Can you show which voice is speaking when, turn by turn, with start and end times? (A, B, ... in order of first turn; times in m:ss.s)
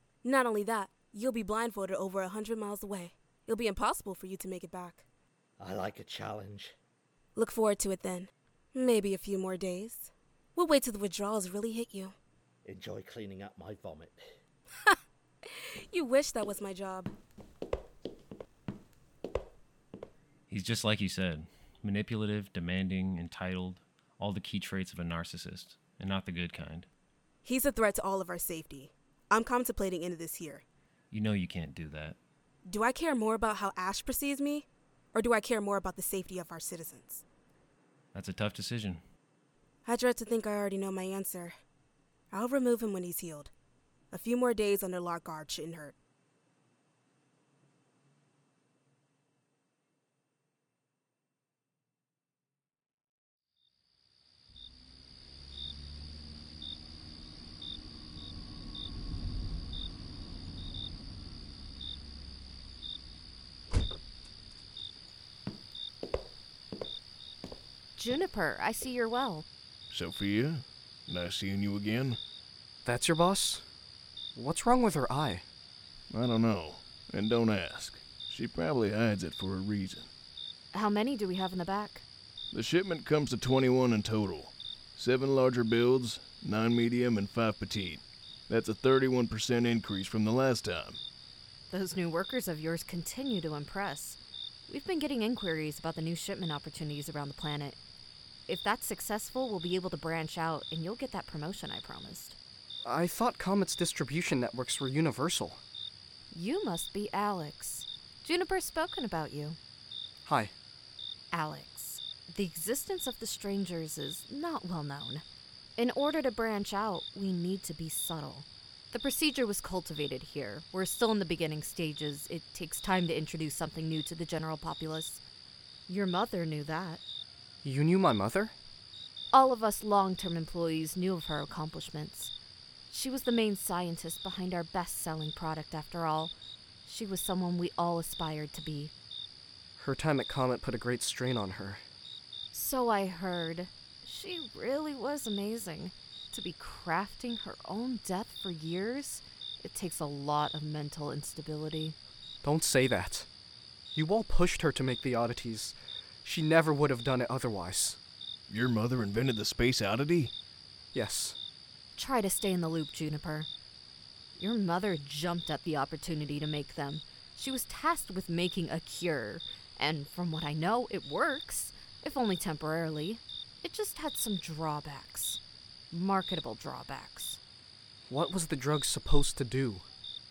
0:00.2-0:05.0 A
0:05.6-0:06.7 B
0:07.4-0:12.1 A
0:12.6-0:14.2 B
0:15.9-0:17.1 A
0:20.5-0:26.9 C
0:27.4-0:30.6 A
0:31.1-0:32.2 C
0:32.7-0:37.2 A
0:38.2-0:39.0 C
0:39.9-0:41.6 A
0:42.3-0:43.5 A
0:44.1-0:46.0 A
1:08.0-1:09.5 D
1:09.9-1:12.2 E
1:12.8-1:13.6 F
1:14.4-1:15.4 F
1:16.1-1:20.1 E
1:20.7-1:22.1 D
1:22.5-1:31.0 E
1:31.7-1:37.8 D
1:38.5-1:42.4 D
1:42.8-1:45.6 F
1:46.3-1:49.6 D
1:50.3-1:50.5 F
1:51.3-1:55.2 D
1:55.8-2:05.2 D
2:05.9-2:07.0 D
2:07.6-2:08.5 F
2:09.3-2:12.3 D
2:12.9-2:16.3 D
2:16.8-2:18.9 D
2:19.8-2:21.8 F
2:22.5-2:32.0 D
2:32.4-2:33.3 F
2:34.0-2:38.0 F
2:38.5-2:40.3 E
2:40.9-2:41.4 F
2:42.0-2:43.5 D
2:44.4-2:55.4 D
2:55.9-2:57.4 D
2:58.1-2:59.8 F